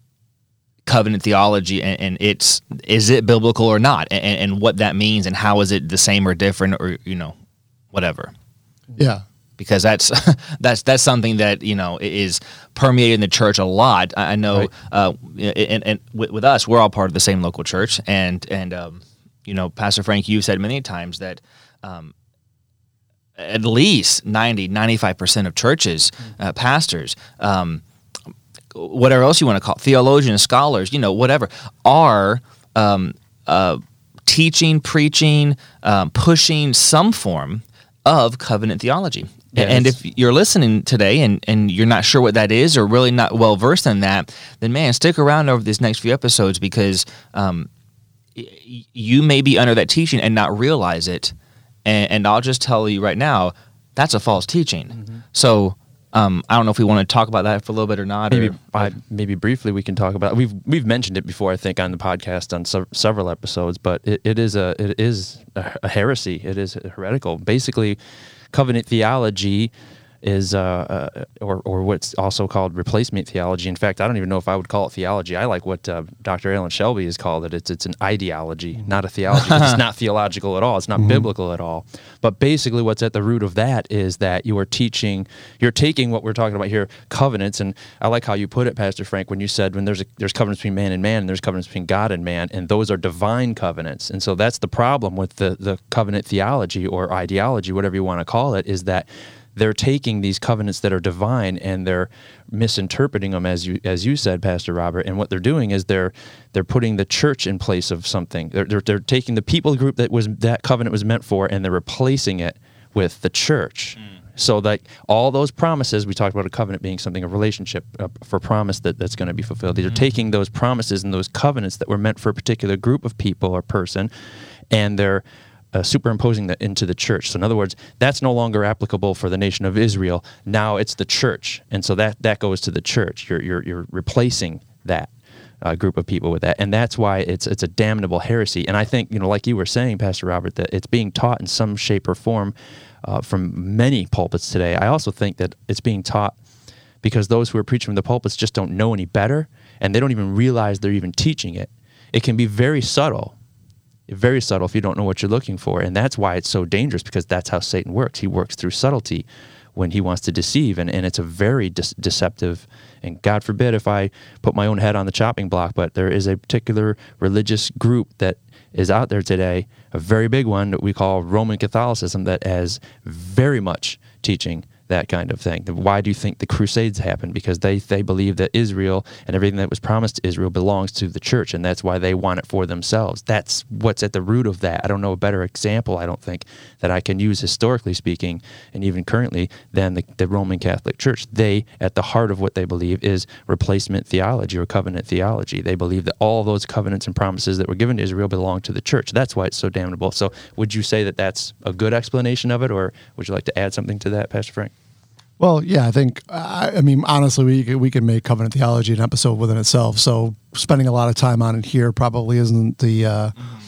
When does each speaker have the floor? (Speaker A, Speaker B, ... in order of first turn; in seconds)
Speaker A: 0.9-7.3, 7.9-8.3, 9.6-22.1, 23.4-27.8, 28.7-47.7, 48.4-51.3, 51.9-58.9, 79.5-79.8
Speaker B: 9.0-9.2, 81.0-81.3, 205.4-213.3
Speaker C: 39.5-39.9, 58.3-68.0, 68.5-69.7, 70.2-124.1, 124.7-135.1, 135.6-146.4, 147.0-153.3, 154.1-204.7